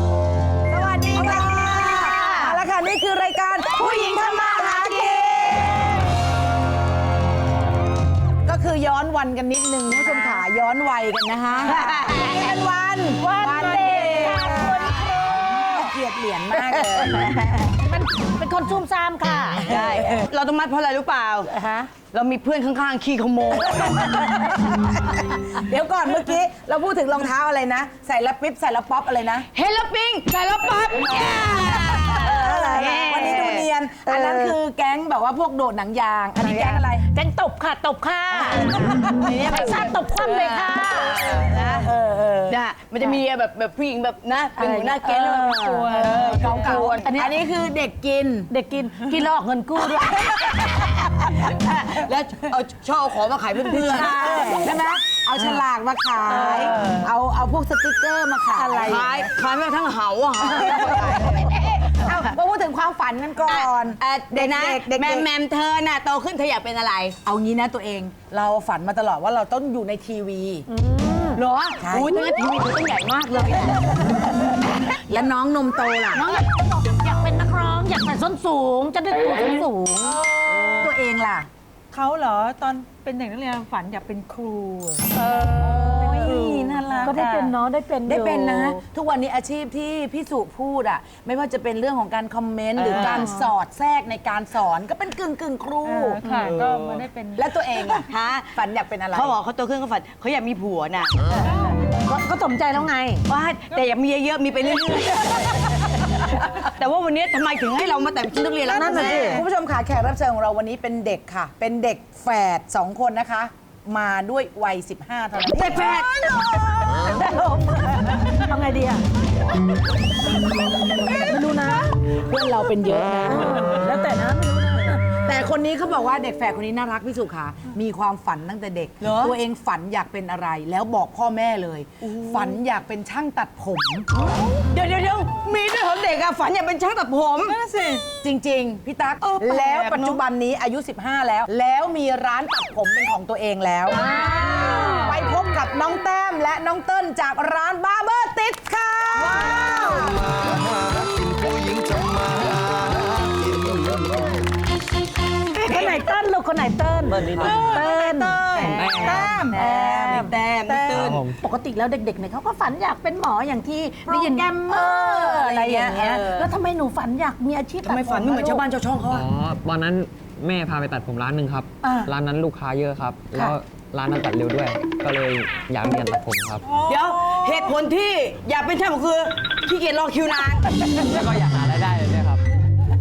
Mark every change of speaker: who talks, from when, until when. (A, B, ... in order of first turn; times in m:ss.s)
0:00.7-0:05.8 A
0:01.2-0:02.6 B
0:01.8-0:02.2 C
0:03.8-0:05.6 B
0:08.5-0:14.9 A
0:09.9-0:10.4 B
0:11.6-0:12.4 B
0:13.2-0:15.8 B
0:15.5-0:17.3 A
0:16.6-0:20.1 B
0:19.6-0:24.2 C
0:21.5-0:21.9 B
0:25.6-0:29.5 A
0:29.6-0:34.3 C
0:31.9-0:37.1 A
0:32.7-0:34.5 B
0:36.4-0:43.2 B
0:38.5-0:38.9 A
0:39.3-0:41.5 C
0:41.4-0:41.9 A
0:42.5-0:47.1 C
0:44.6-0:47.4 B
0:46.2-0:48.5 A
0:48.5-0:50.6 B
0:51.5-0:54.5 C
0:53.6-0:55.6 B
0:53.8-0:59.2 A
0:56.2-0:57.1 B
0:56.3-0:57.0 C
0:58.5-0:59.3 B
0:58.8-1:01.3 C
1:00.6-1:05.3 A
1:03.5-1:07.2 C
1:07.2-1:10.7 A
1:10.7-1:11.4 B
1:11.4-1:13.8 C
1:11.8-1:12.3 A
1:15.1-1:16.4 A
1:16.1-1:20.2 B
1:20.0-1:20.9 D
1:20.8-1:21.5 A
1:21.9-1:27.5 D
1:25.2-1:28.8 B
1:25.9-1:26.4 C
1:26.0-1:27.2 A
1:28.1-1:36.2 A
1:32.8-1:33.3 C
1:32.9-1:33.5 B
1:35.8-1:37.5 D
1:36.2-1:36.5 B
1:36.3-1:37.0 C
1:37.4-1:39.3 A
1:38.1-1:38.5 C
1:39.1-1:41.2 C
1:42.0-1:43.2 B
1:43.3-1:45.7 C
1:46.8-1:49.4 C
1:48.7-1:49.5 B
1:48.7-1:56.0 A
1:55.6-1:59.0 B
1:55.7-1:56.0 C
2:01.0-2:01.9 B
2:02.3-2:03.8 A
2:03.5-2:05.0 B
2:05.3-2:14.1 A
2:09.0-2:09.4 C
2:12.0-2:12.6 C
2:14.2-2:17.6 C
2:17.4-2:18.0 D
2:18.2-2:30.2 A
2:19.2-2:20.2 C
2:24.0-2:25.1 B
2:24.4-2:24.9 C
2:29.2-2:29.5 C
2:30.2-2:34.4 E
2:35.6-2:48.6 B
2:35.7-2:36.0 C
2:37.1-2:37.8 F
2:37.4-2:39.4 D
2:38.6-2:39.5 F
2:38.6-2:41.2 C
2:40.9-2:41.4 F
2:44.1-2:46.2 A
2:45.9-2:46.5 C
2:47.8-2:49.3 A
2:48.1-2:48.6 C
2:49.1-2:56.6 F
2:51.8-2:52.1 B
2:56.6-2:57.8 D
2:56.9-3:00.7 C
3:01.1-3:02.4 F